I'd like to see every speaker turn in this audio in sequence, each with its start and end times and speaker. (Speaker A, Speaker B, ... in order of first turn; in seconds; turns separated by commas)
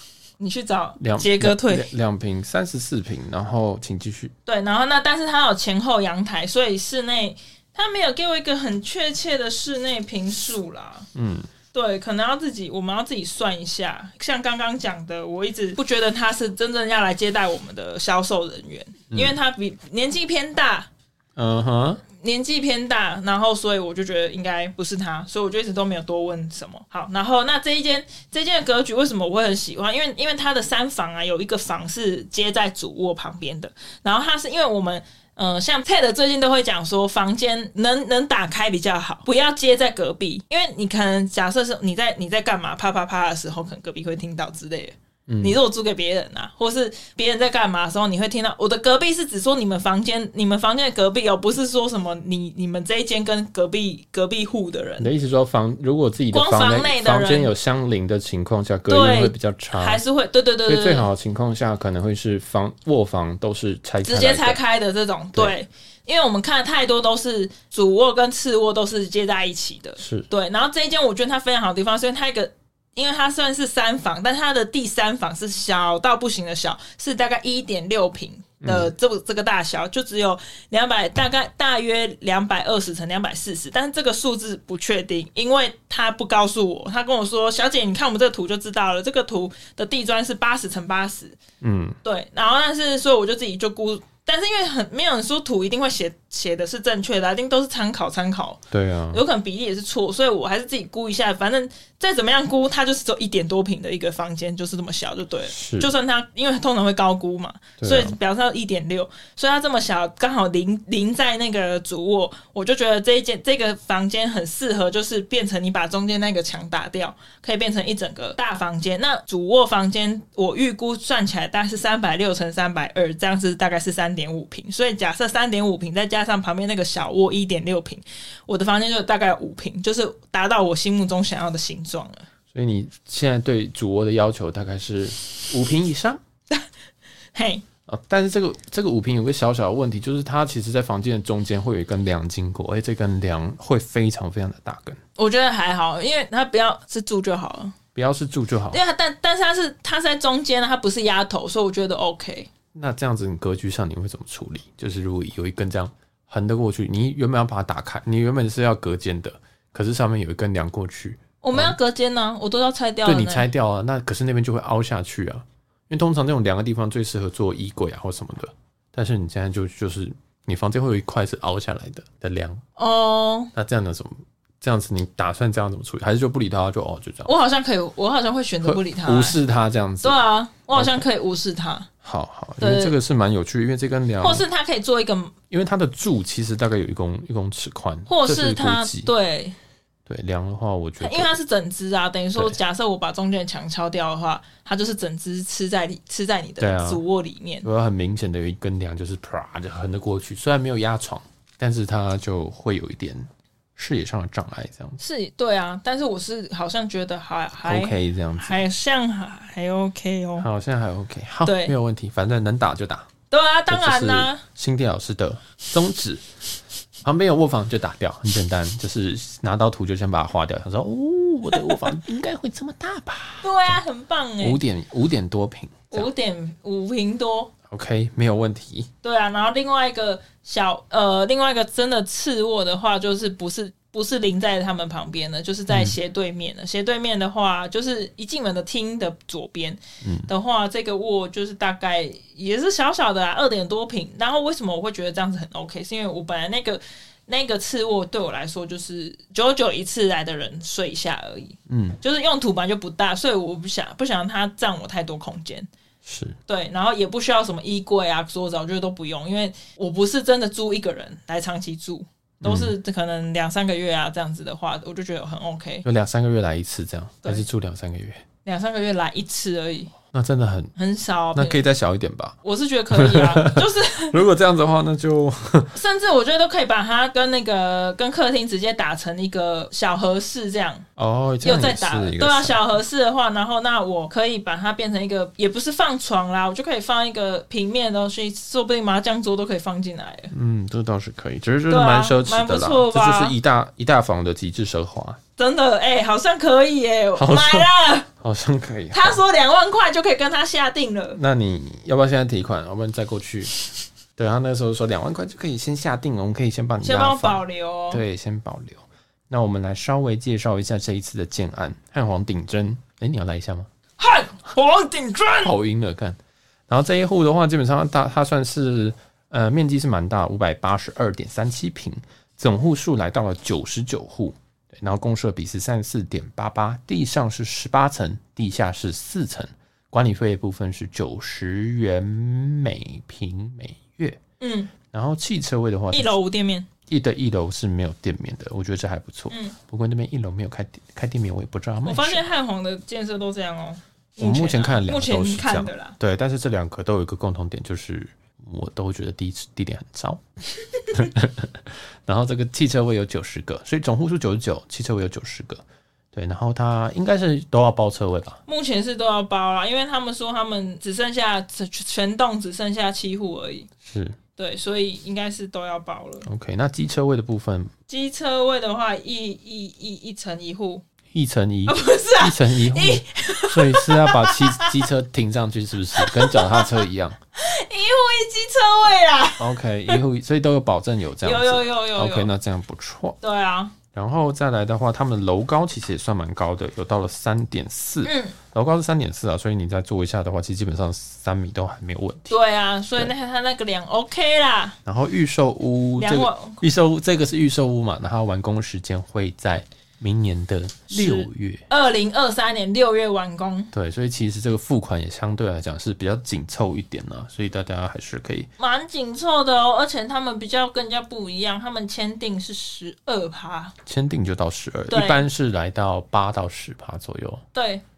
Speaker A: 0.4-1.9, Speaker B: 1.0-4.3, Speaker A: 4.5-11.1, Speaker B: 11.1-11.5, Speaker A: 11.7-20.9, Speaker B: 19.1-19.4, Speaker B: 21.4-22.0, Speaker A: 22.1-55.1, Speaker B: 45.3-45.6, Speaker B: 55.0-60.0, Speaker A: 56.3-57.5, Speaker A: 58.9-61.0, Speaker B: 60.7-64.6, Speaker A: 64.0-91.4, Speaker B: 70.0-70.3, Speaker B: 78.6-78.9, Speaker B: 91.6-92.0, Speaker A: 92.0-98.6, Speaker B: 98.7-99.2, Speaker A: 99.1-132.2, Speaker B: 105.5-105.9, Speaker B: 107.8-108.2, Speaker B: 132.5-136.2, Speaker A: 137.3-137.6, Speaker B: 137.9-145.0, Speaker A: 145.2-147.8, Speaker B: 147.9-148.8, Speaker A: 148.7-152.5, Speaker B: 152.7-161.8, Speaker A: 161.4-163.5, Speaker B: 163.0-172.6, Speaker A: 172.8-173.5, Speaker B: 173.5-177.3, Speaker A: 177.2-179.4, Speaker B: 178.6-180.2, Speaker A: 180.0-181.9, Speaker B: 180.7-181.0, Speaker B: 182.0-184.4, Speaker A: 182.6-182.9, Speaker A: 184.2-185.4, Speaker B: 185.5-189.1, Speaker A: 188.1-189.6, Speaker B: 190.1-191.3, Speaker A: 191.0-197.7, Speaker B: 196.6-197.0, Speaker B: 197.6-205.0, Speaker A: 205.0-210.5, Speaker B: 207.6-208.6, Speaker B: 210.4-213.1, Speaker A: 211.4-211.7, Speaker A: 213.3-214.4, Speaker B: 213.7-216.2, Speaker B: 217.0-223.8, Speaker A: 223.4-224.6, Speaker B: 224.4-226.1, Speaker A: 225.9-227.5, Speaker B: 227.7-228.9, Speaker A: 229.0-255.7, Speaker B: 235.7-236.0, Speaker B: 240.0-240.3, Speaker B: 251.7-252.0, Speaker B: 256.0-256.4, Speaker A: 256.5-265.8, Speaker B: 262.4-262.7, Speaker B: 265.8-268.2, Speaker A: 268.4-269.9, Speaker B: 270.1-270.7, Speaker A: 270.8-271.6, Speaker B: 271.3-272.4, Speaker A: 272.4-274.2, Speaker B: 272.9-275.8, Speaker A: 275.7-280.9, Speaker B: 281.0-282.6, Speaker A: 281.4-290.3, Speaker B: 290.3-295.2, Speaker A: 291.7-293.3, Speaker A: 295.4-298.1, Speaker B: 297.2-299.2, Speaker A: 298.9-301.2, Speaker B: 301.2-303.5, Speaker B: 304.2-313.7, Speaker A: 306.8-308.0, Speaker A: 314.0-315.5, Speaker B: 315.4-334.2, Speaker A: 334.4-334.7, Speaker B: 334.9-336.1, Speaker A: 335.9-336.7, Speaker B: 336.9-342.2, Speaker A: 339.3-339.6, Speaker A: 341.8-346.0, Speaker B: 344.2-350.2, Speaker B: 350.9-358.4, Speaker A: 358.5-363.7, Speaker B: 363.8-364.2, Speaker A: 364.4-366.3, Speaker B: 366.2-367.7, Speaker A: 367.9-370.8, Speaker B: 371.1-377.2, Speaker A: 371.7-374.9, Speaker A: 375.9-376.8, Speaker A: 377.4-380.0, Speaker B: 379.4-383.2, Speaker A: 381.2-382.3, Speaker A: 383.2-383.8, Speaker B: 383.9-392.3, Speaker A: 388.0-388.4, Speaker A: 392.3-394.8, Speaker B: 394.9-401.6, Speaker A: 396.0-396.6, Speaker A: 400.9-403.7, Speaker B: 403.7-408.5, Speaker A: 408.6-413.8, Speaker B: 413.8-417.4, Speaker A: 414.9-415.2, Speaker A: 417.5-417.8